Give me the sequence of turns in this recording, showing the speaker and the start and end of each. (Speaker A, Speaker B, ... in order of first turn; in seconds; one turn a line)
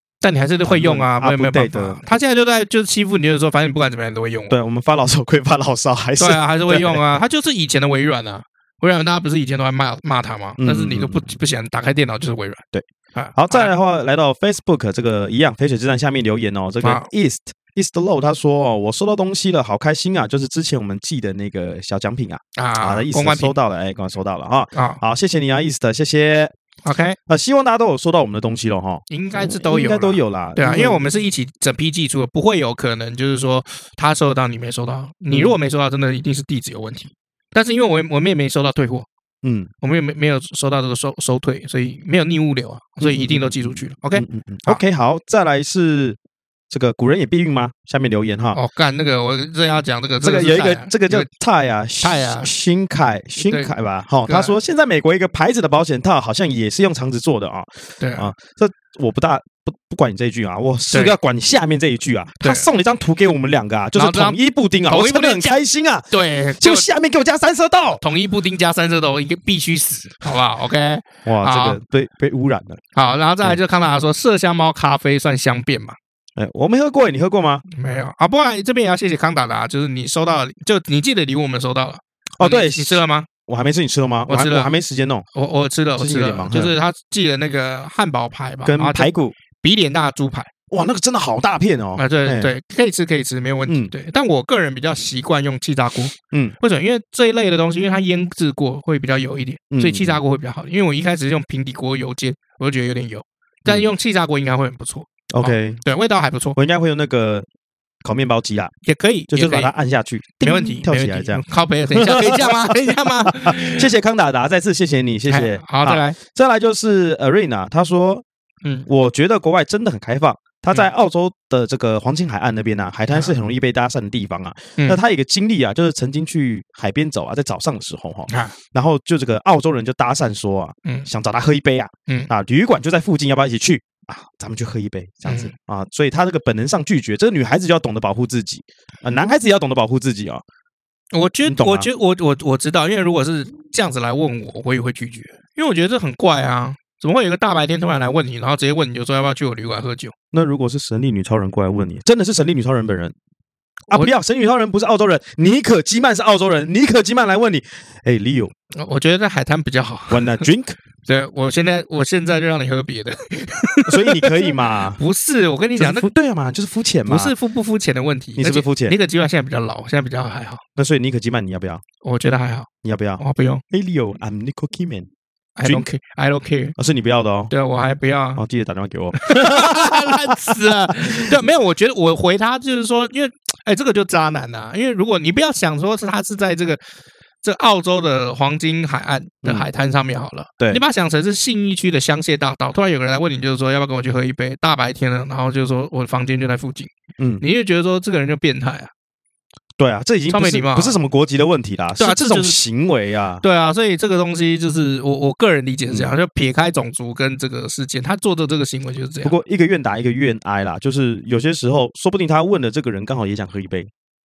Speaker A: 0.2-4.5
Speaker B: 0.6-2.1
Speaker B: 4.5-7.0
Speaker A: 6.2-13.7
Speaker B: 10.6-11.3
Speaker B: 12.7-26.5
Speaker A: 16.8-17.1
Speaker A: 22.6-23.5
Speaker A: 24.7-25.0
Speaker A: 26.8-27.2
Speaker B: 27.3-31.0
Speaker A: 29.1-39.1
Speaker B: 35.3-35.5
Speaker B: 39.4-39.7
Speaker A: 39.8-44.8
Speaker B: 43.0-46.2
Speaker B: 46.7-48.6
Speaker A: 48.5-51.3
Speaker B: 50.2-68.0
Speaker A: 52.0-52.5
Speaker A: 53.4-53.7
Speaker A: 54.2-54.5
Speaker A: 58.0-58.3
Speaker A: 62.4-62.6
Speaker A: 63.9-65.5
Speaker A: 66.1-66.9
Speaker A: 68.0-71.8
Speaker B: 71.2-72.8
Speaker A: 72.9-76.0
Speaker B: 76.4-77.6
Speaker A: 77.7-83.3
Speaker B: 82.4-85.2
Speaker A: 84.3-84.7
Speaker A: 85.3-90.5
Speaker B: 86.0-86.7
Speaker B: 88.6-89.3
Speaker B: 90.7-92.5
Speaker A: 92.0-106.6
Speaker B: 96.3-96.5
Speaker B: 99.7-100.2
Speaker B: 103.7-103.9
Speaker B: 105.3-105.8
Speaker B: 106.5-107.5
Speaker B: 108.0-108.7
Speaker A: 108.8-109.7
Speaker B: 109.3-118.2
Speaker A: 110.4-113.9
Speaker A: 115.3-116.2
Speaker B: 118.9-140.4
Speaker A: 128.3-128.5
Speaker A: 135.2-135.5
Speaker A: 141.1-150.1
Speaker B: 141.4-141.9
Speaker B: 150.3-153.1
Speaker B: 153.9-158.5
Speaker A: 158.7-160.5
Speaker B: 160.1-160.8
Speaker A: 161.1-166.1
Speaker B: 163.8-165.0
Speaker B: 165.8-167.3
Speaker A: 167.1-170.6
Speaker B: 168.4-168.9
Speaker B: 170.8-171.8
Speaker A: 172.0-173.6
Speaker B: 172.8-175.1
Speaker A: 175.6-176.8
Speaker B: 175.6-175.9
Speaker B: 176.8-177.5
Speaker A: 177.5-178.4
Speaker B: 178.4-181.3
Speaker A: 179.2-186.8
Speaker A: 187.4-198.9
Speaker B: 197.2-197.4
Speaker B: 199.8-203.4
Speaker A: 200.3-201.0
Speaker A: 202.0-202.6
Speaker A: 203.4-209.3
Speaker B: 209.2-213.9